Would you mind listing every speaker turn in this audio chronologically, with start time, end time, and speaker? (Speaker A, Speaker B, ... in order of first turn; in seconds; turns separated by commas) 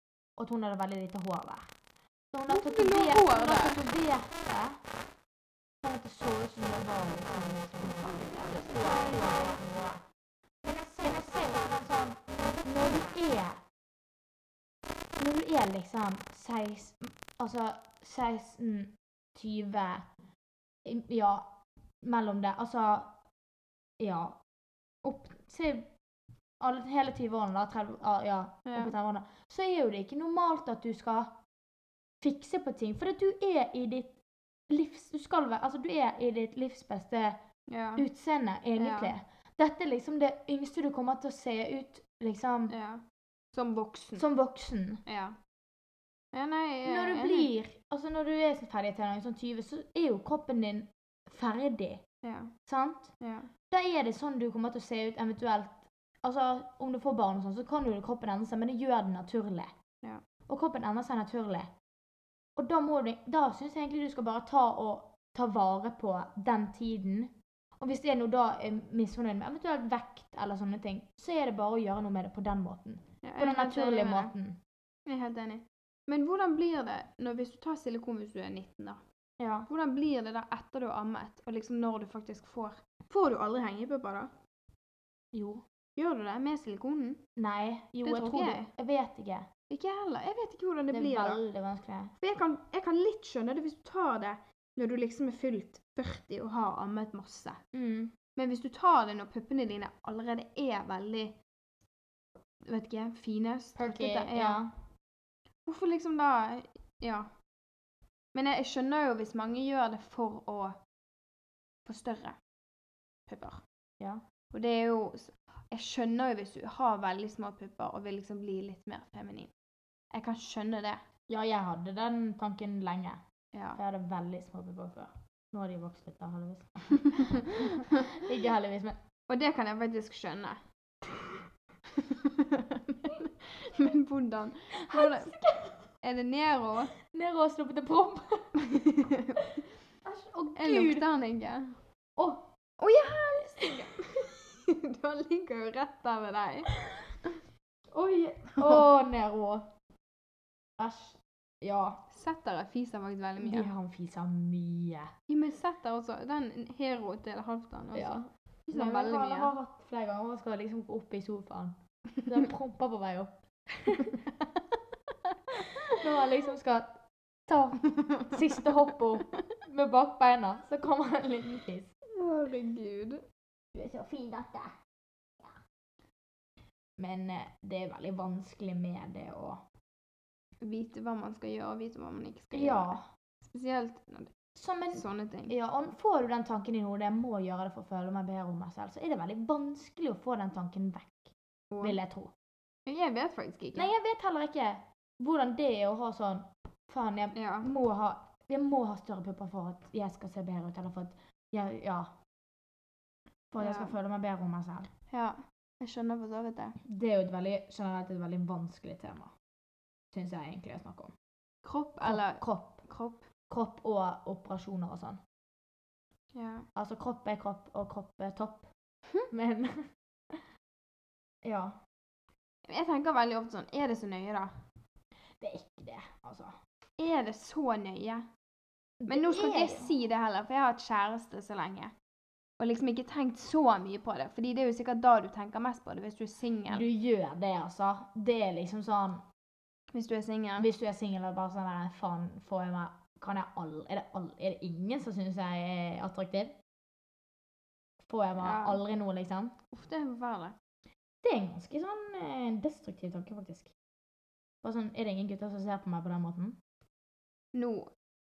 Speaker A: 0.4-1.7, Speaker A: 2.3-4.8, Speaker B: 2.5-3.8, Speaker A: 5.8-10.0, Speaker A: 10.6-13.6, Speaker A: 15.2-20.1, Speaker A: 20.8-23.1, Speaker A: 24.0-24.4, Speaker A: 25.0-25.9, Speaker A: 26.6-31.4, Speaker B: 28.6-28.9, Speaker A: 32.2-34.2, Speaker A: 34.7-37.4, Speaker B: 37.7-38.1, Speaker A: 38.0-42.7, Speaker B: 38.8-39.1, Speaker B: 42.7-44.2, Speaker A: 44.2-45.0, Speaker B: 45.0-45.4, Speaker B: 46.3-47.5, Speaker A: 46.8-52.0, Speaker B: 52.2-52.5, Speaker A: 52.6-53.1, Speaker B: 53.2-53.5, Speaker A: 53.7-59.7, Speaker A: 60.5-61.7, Speaker A: 62.6-74.6, Speaker B: 73.2-74.3, Speaker B: 75.0-79.0, Speaker A: 79.4-79.7, Speaker B: 79.7-84.3, Speaker A: 85.3-85.6, Speaker B: 86.0-87.2, Speaker A: 87.3-89.5, Speaker B: 88.0-88.7, Speaker B: 89.7-91.4, Speaker A: 90.9-92.1, Speaker B: 92.2-97.6, Speaker A: 97.7-98.1, Speaker B: 98.3-101.4, Speaker B: 102.7-104.6, Speaker A: 103.8-104.7, Speaker B: 105.7-107.3, Speaker B: 108.3-110.8, Speaker B: 111.8-112.4, Speaker B: 113.3-113.6, Speaker B: 114.5-119.5, Speaker B: 120.1-121.0, Speaker A: 121.3-123.2, Speaker B: 123.5-123.8, Speaker A: 123.7-129.0, Speaker B: 129.3-130.6, Speaker B: 131.9-135.4, Speaker A: 134.9-135.8, Speaker B: 136.0-136.9, Speaker A: 137.0-139.4, Speaker B: 138.6-139.4, Speaker A: 140.0-141.0, Speaker B: 140.6-141.8, Speaker A: 142.2-142.5, Speaker B: 142.8-146.7, Speaker A: 147.9-149.7, Speaker A: 150.8-152.0, Speaker B: 152.1-153.7, Speaker A: 153.4-155.1, Speaker B: 155.3-159.5, Speaker A: 157.9-164.3, Speaker A: 165.5-171.9, Speaker B: 172.1-173.2, Speaker A: 173.7-174.8, Speaker A: 177.0-179.6, Speaker B: 180.6-184.3, Speaker A: 182.5-183.0, Speaker A: 184.6-192.3, Speaker B: 184.9-185.5, Speaker B: 191.7-192.0, Speaker B: 192.8-193.9, Speaker A: 193.7-202.2, Speaker B: 197.3-197.7, Speaker A: 203.5-204.9, Speaker B: 203.6-203.9, Speaker B: 205.1-206.8, Speaker A: 206.8-209.3, Speaker A: 210.1-211.1, Speaker B: 211.6-213.3, Speaker A: 212.0-212.8, Speaker A: 213.5-215.2, Speaker B: 216.3-216.7, Speaker A: 216.7-218.7, Speaker A: 219.3-220.4, Speaker A: 221.4-221.8, Speaker B: 222.7-224.5, Speaker A: 225.4-226.6, Speaker B: 227.0-228.3, Speaker A: 229.0-229.9, Speaker B: 229.1-231.9, Speaker B: 232.6-236.8, Speaker A: 236.7-239.2, Speaker B: 239.9-240.7, Speaker A: 240.6-246.6, Speaker A: 248.0-249.5, Speaker B: 248.4-248.8, Speaker B: 249.7-250.6, Speaker A: 251.2-253.7, Speaker A: 254.6-256.6, Speaker B: 257.5-257.9